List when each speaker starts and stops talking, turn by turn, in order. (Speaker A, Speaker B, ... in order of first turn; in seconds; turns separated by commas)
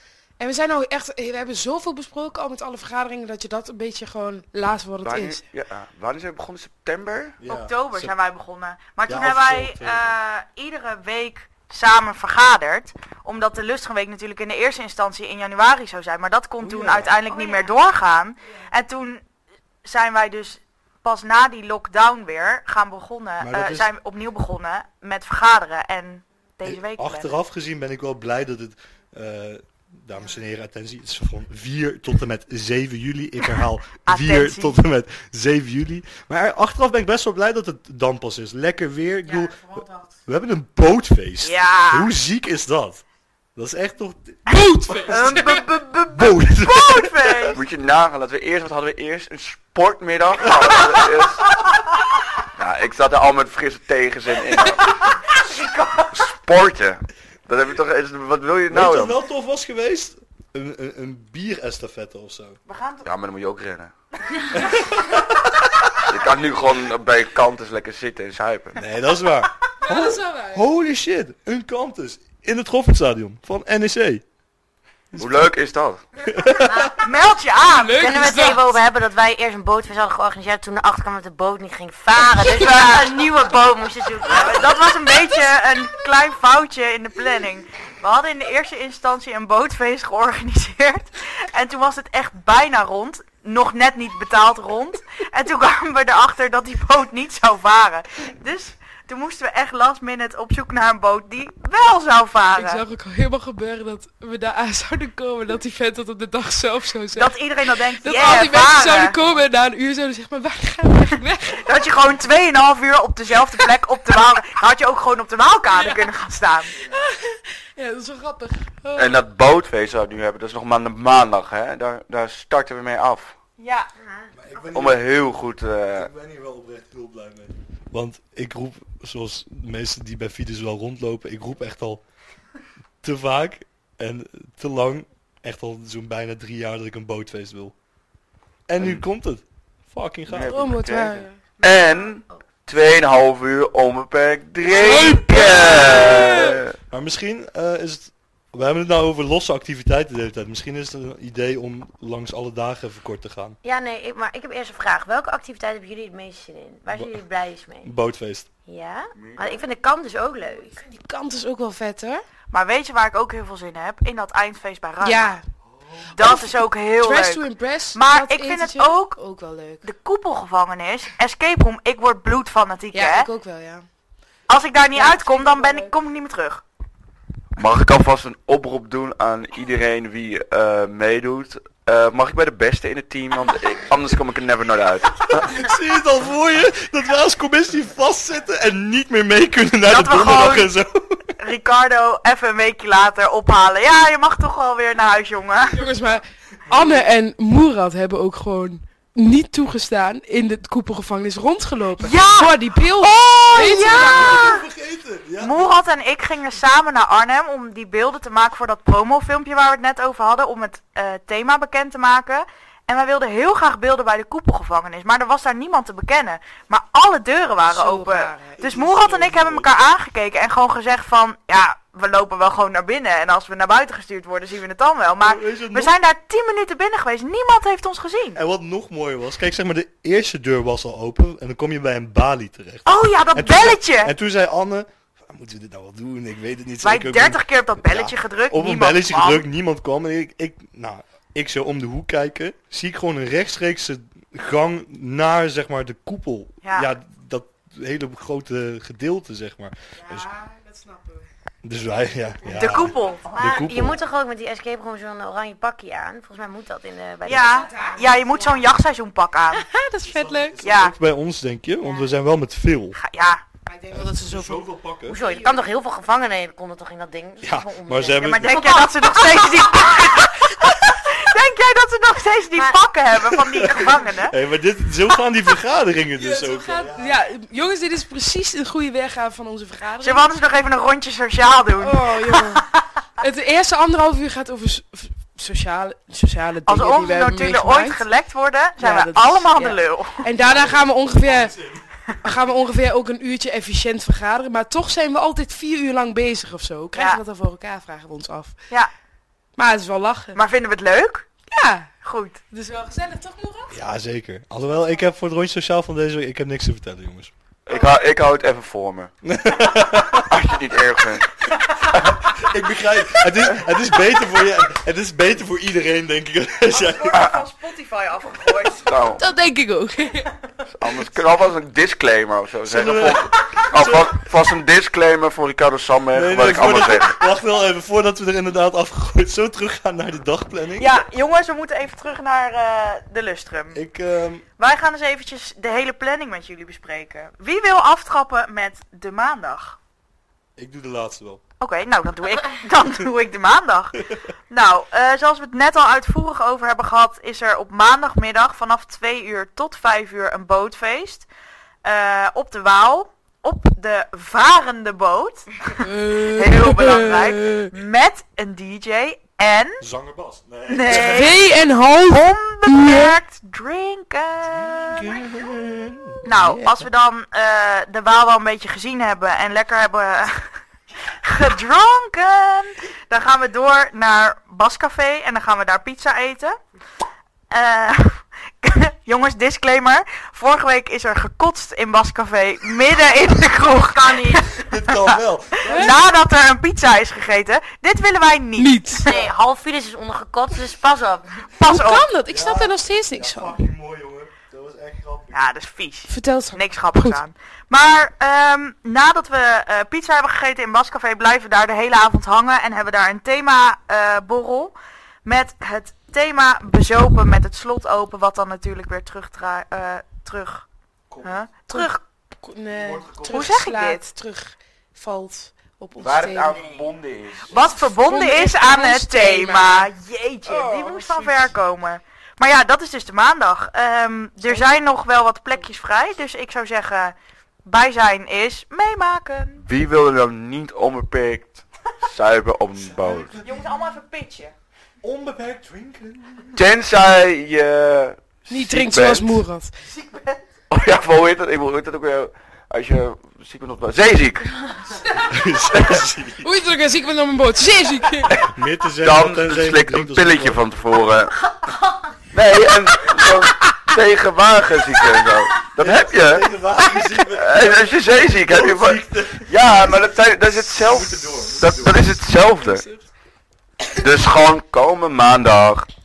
Speaker A: 0.4-5.4, Speaker B: 5.0-7.4, Speaker C: 7.4-8.2, Speaker D: 7.5-19.2, Speaker C: 9.1-10.1, Speaker C: 16.6-17.1, Speaker E: 17.3-17.6, Speaker D: 19.8-27.3, Speaker C: 23.4-23.9, Speaker C: 26.6-43.0, Speaker D: 34.0-34.8, Speaker D: 41.4-42.1, Speaker C: 43.6-47.5, Speaker A: 44.5-45.6, Speaker D: 44.5-47.6, Speaker B: 47.5-51.6, Speaker C: 50.4-50.9, Speaker B: 52.6-54.9, Speaker D: 55.3-56.1, Speaker B: 56.1-59.2, Speaker C: 58.7-62.6, Speaker D: 62.7-63.1, Speaker B: 63.0-63.9, Speaker C: 64.5-65.9, Speaker B: 66.1-68.8, Speaker C: 68.8-74.2, Speaker A: 69.8-70.7, Speaker B: 75.1-76.0, Speaker C: 76.3-76.9, Speaker E: 76.7-77.0, Speaker D: 77.0-78.6, Speaker A: 77.7-78.6, Speaker E: 78.0-84.7, Speaker D: 84.3-102.8, Speaker A: 102.5-107.3, Speaker D: 107.1-109.2, Speaker A: 108.0-111.7, Speaker D: 111.6-116.7, Speaker A: 115.7-116.1, Speaker A: 116.8-119.2, Speaker B: 119.0-123.3, Speaker D: 123.6-123.9, Speaker E: 124.0-124.3, Speaker C: 124.3-125.2, Speaker B: 124.7-126.1, Speaker C: 126.0-132.0, Speaker C: 133.0-137.8, Speaker C: 138.7-140.7, Speaker B: 140.3-146.8, Speaker A: 140.5-141.4, Speaker E: 141.7-142.4, Speaker A: 144.7-146.6, Speaker C: 145.3-146.2, Speaker C: 146.9-153.6, Speaker E: 153.6-157.9, Speaker C: 156.9-157.2, Speaker C: 157.8-158.5, Speaker E: 158.7-160.8, Speaker A: 160.4-162.2, Speaker D: 162.5-165.3, Speaker A: 165.0-165.4, Speaker A: 166.1-169.8, Speaker D: 166.1-169.2, Speaker D: 169.8-173.3, Speaker A: 172.9-173.9, Speaker D: 174.5-176.6, Speaker A: 174.9-175.9, Speaker B: 177.6-185.5, Speaker C: 185.4-191.3, Speaker D: 189.9-190.7, Speaker D: 191.4-195.8, Speaker A: 195.7-204.5, Speaker D: 202.0-204.6, Speaker C: 203.5-205.6, Speaker D: 205.4-228.4, Speaker A: 217.7-219.1, Speaker C: 218.9-219.7, Speaker C: 225.2-225.9, Speaker C: 228.3-250.3, Speaker D: 232.9-234.1, Speaker D: 236.8-239.5, Speaker D: 246.6-246.9, Speaker A: 250.0-251.3, Speaker C: 251.6-254.0, Speaker D: 252.5-253.3, Speaker E: 253.2-258.2, Speaker D: 257.2-259.7, Speaker A: 257.3-258.6, Speaker A: 259.5-260.6, Speaker C: 260.0-263.0, Speaker D: 260.6-260.9, Speaker E: 261.8-262.1, Speaker D: 263.0-263.4, Speaker A: 263.7-264.7, Speaker C: 263.9-265.2, Speaker E: 265.1-270.3, Speaker A: 265.2-265.6, Speaker C: 267.4-268.6, Speaker D: 268.2-274.4, Speaker C: 273.3-277.2, Speaker A: 276.2-280.3, Speaker D: 280.0-282.8, Speaker A: 281.8-282.6, Speaker A: 283.2-288.1, Speaker D: 286.7-290.2, Speaker A: 288.8-291.6, Speaker C: 290.4-291.9, Speaker A: 292.2-298.6, Speaker D: 296.9-297.2, Speaker A: 299.6-300.4, Speaker D: 300.4-301.3, Speaker A: 301.5-301.9, Speaker D: 302.0-302.4, Speaker A: 302.5-303.8, Speaker C: 303.7-307.3, Speaker B: 307.7-309.1, Speaker C: 309.2-310.4, Speaker B: 310.1-312.2, Speaker C: 312.0-317.2, Speaker D: 316.7-319.1, Speaker B: 317.1-317.4, Speaker B: 318.8-319.2, Speaker A: 319.2-320.3, Speaker B: 320.7-327.2, Speaker C: 322.7-324.2, Speaker C: 326.1-330.9, Speaker D: 330.8-333.8, Speaker C: 333.7-334.4, Speaker D: 334.6-339.8, Speaker C: 340.6-341.4, Speaker D: 341.6-351.3, Speaker D: 351.8-359.8, Speaker A: 355.8-357.7, Speaker C: 359.8-361.3, Speaker D: 360.7-361.4, Speaker A: 360.9-363.2, Speaker D: 362.1-365.2, Speaker C: 364.4-366.3, Speaker D: 366.2-370.5, Speaker D: 371.2-376.6, Speaker D: 377.5-389.3, Speaker C: 384.6-386.0, Speaker A: 385.7-385.9, Speaker A: 388.6-389.1, Speaker E: 389.1-391.5, Speaker D: 391.6-392.1, Speaker A: 391.6-393.6, Speaker C: 392.3-395.4, Speaker D: 395.3-410.7, Speaker A: 396.1-397.2, Speaker C: 411.1-411.4, Speaker D: 411.2-412.0, Speaker A: 411.7-416.6, Speaker C: 412.8-413.5, Speaker D: 413.3-414.0, Speaker B: 416.0-417.6, Speaker D: 417.5-429.6, Speaker A: 417.8-419.9, Speaker A: 420.5-421.6, Speaker B: 429.6-433.4, Speaker C: 432.8-433.7, Speaker D: 433.4-434.5, Speaker C: 435.0-436.6, Speaker B: 436.6-439.4, Speaker A: 438.5-439.8, Speaker D: 439.9-440.4, Speaker B: 440.7-444.5, Speaker C: 445.2-446.5, Speaker B: 445.7-446.0, Speaker A: 446.4-448.5, Speaker C: 448.4-450.6, Speaker B: 449.0-451.4, Speaker B: 452.3-456.5, Speaker C: 455.8-462.2, Speaker B: 457.3-462.9, Speaker A: 462.6-463.1, Speaker B: 463.9-465.9